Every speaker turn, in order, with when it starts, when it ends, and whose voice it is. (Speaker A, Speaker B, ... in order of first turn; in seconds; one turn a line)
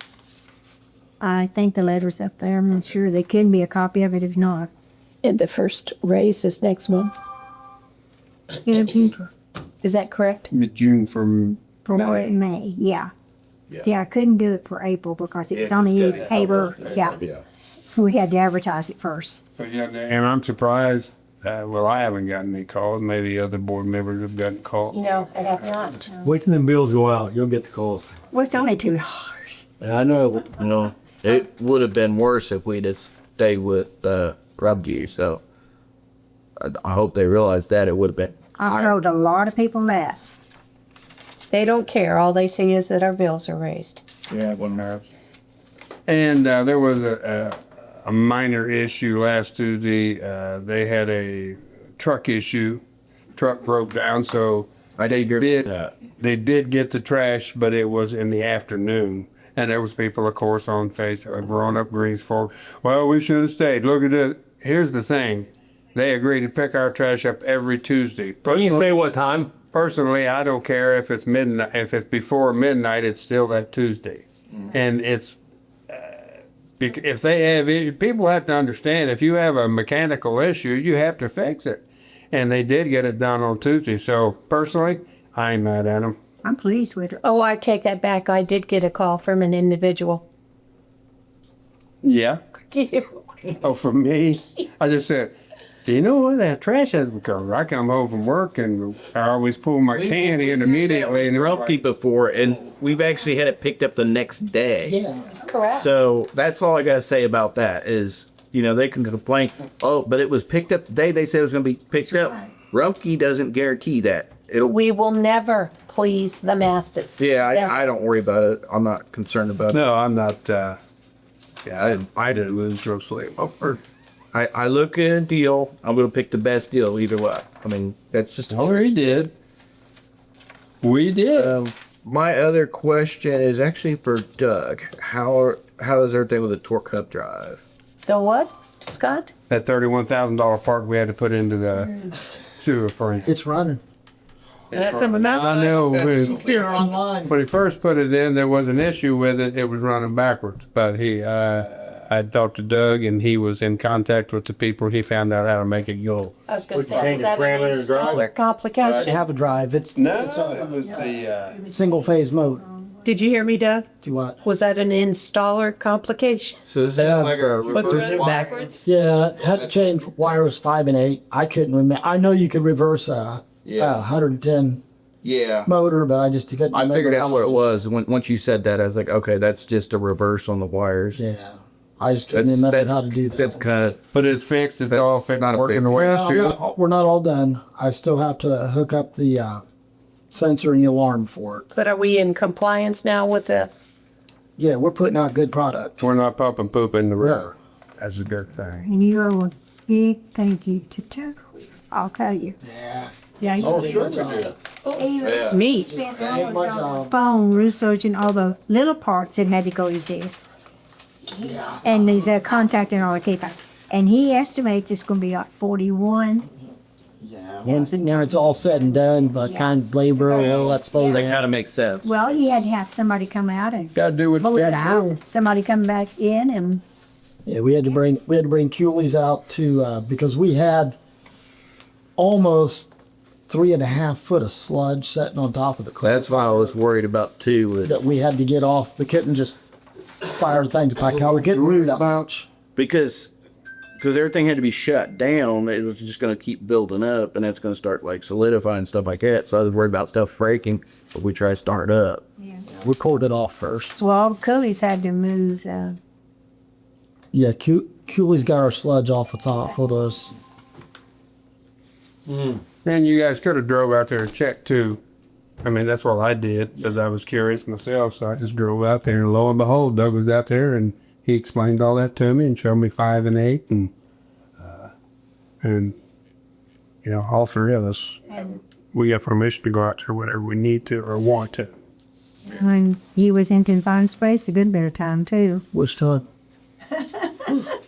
Speaker A: 1.2-4.7
Speaker B: 5.2-7.1
Speaker A: 8.6-9.3
Speaker B: 9.8-10.5
Speaker C: 10.5-12.3
Speaker A: 11.8-13.1
Speaker A: 13.8-17.2
Speaker D: 15.5-17.4
Speaker A: 17.9-19.4
Speaker C: 19.6-25.9
Speaker B: 24.9-26.1
Speaker E: 26.2-28.2
Speaker A: 28.3-29.6
Speaker E: 29.8-30.5
Speaker D: 30.6-35.4
Speaker D: 36.6-38.9
Speaker A: 38.6-40.2
Speaker B: 41.5-44.0
Speaker D: 44.3-44.8
Speaker C: 44.8-45.0
Speaker C: 46.1-52.8
Speaker C: 53.3-68.9
Speaker D: 55.0-55.9
Speaker E: 68.4-69.5
Speaker C: 69.7-75.4
Speaker C: 75.9-86.2
Speaker A: 86.4-87.2
Speaker B: 87.2-90.2
Speaker C: 92.0-92.4
Speaker B: 92.7-93.2
Speaker C: 93.6-95.3
Speaker C: 95.8-101.8
Speaker D: 99.9-105.0
Speaker F: 104.8-105.3
Speaker B: 105.5-105.9
Speaker D: 105.8-114.7
Speaker B: 114.6-117.7
Speaker D: 117.2-119.8
Speaker C: 119.7-120.8
Speaker C: 121.6-123.8
Speaker D: 124.3-129.2
Speaker C: 128.5-129.3
Speaker C: 130.8-131.5
Speaker D: 131.3-137.6
Speaker B: 138.1-139.3
Speaker C: 139.5-143.3
Speaker F: 143.2-143.8
Speaker C: 144.7-146.5
Speaker B: 144.7-145.8
Speaker F: 146.4-147.3
Speaker C: 147.3-156.3
Speaker B: 156.5-159.2
Speaker E: 156.7-158.2
Speaker F: 158.9-162.7
Speaker C: 159.9-161.6
Speaker B: 163.0-163.9
Speaker F: 164.0-164.4
Speaker B: 164.4-166.6
Speaker D: 166.7-168.7
Speaker F: 166.9-167.3
Speaker B: 167.7-168.8
Speaker F: 168.8-174.8
Speaker D: 173.6-174.0
Speaker D: 175.2-175.7
Speaker F: 175.7-177.6
Speaker D: 176.7-181.2
Speaker F: 181.1-183.6
Speaker D: 182.3-184.0
Speaker C: 184.1-186.5
Speaker D: 184.9-186.5
Speaker F: 185.9-189.6
Speaker F: 190.3-191.7
Speaker B: 191.7-193.7
Speaker F: 194.6-196.0
Speaker C: 196.0-198.9
Speaker F: 197.2-197.5
Speaker A: 198.9-201.4
Speaker A: 201.9-202.6
Speaker F: 202.6-204.5
Speaker A: 203.4-210.5
Speaker C: 203.7-204.4
Speaker B: 204.8-205.9
Speaker D: 205.2-205.6
Speaker F: 205.8-207.1
Speaker F: 211.4-211.8
Speaker A: 211.8-216.5
Speaker F: 217.2-221.4
Speaker A: 217.7-221.3
Speaker D: 220.3-222.2
Speaker A: 222.0-226.8
Speaker C: 223.9-225.2
Speaker F: 227.4-231.0
Speaker F: 232.2-232.9
Speaker F: 233.5-236.6
Speaker D: 236.0-238.0
Speaker F: 237.8-239.5
Speaker F: 240.2-242.5
Speaker D: 242.7-243.3
Speaker D: 244.0-252.2
Speaker F: 252.7-254.0
Speaker A: 254.0-256.0
Speaker F: 257.3-260.3
Speaker E: 262.3-262.6
Speaker C: 262.8-265.0
Speaker C: 265.6-273.9
Speaker C: 274.6-274.9
Speaker C: 275.6-275.9
Speaker C: 277.0-278.2
Speaker C: 278.9-281.7
Speaker A: 282.4-285.6
Speaker F: 285.7-286.2
Speaker A: 287.0-287.7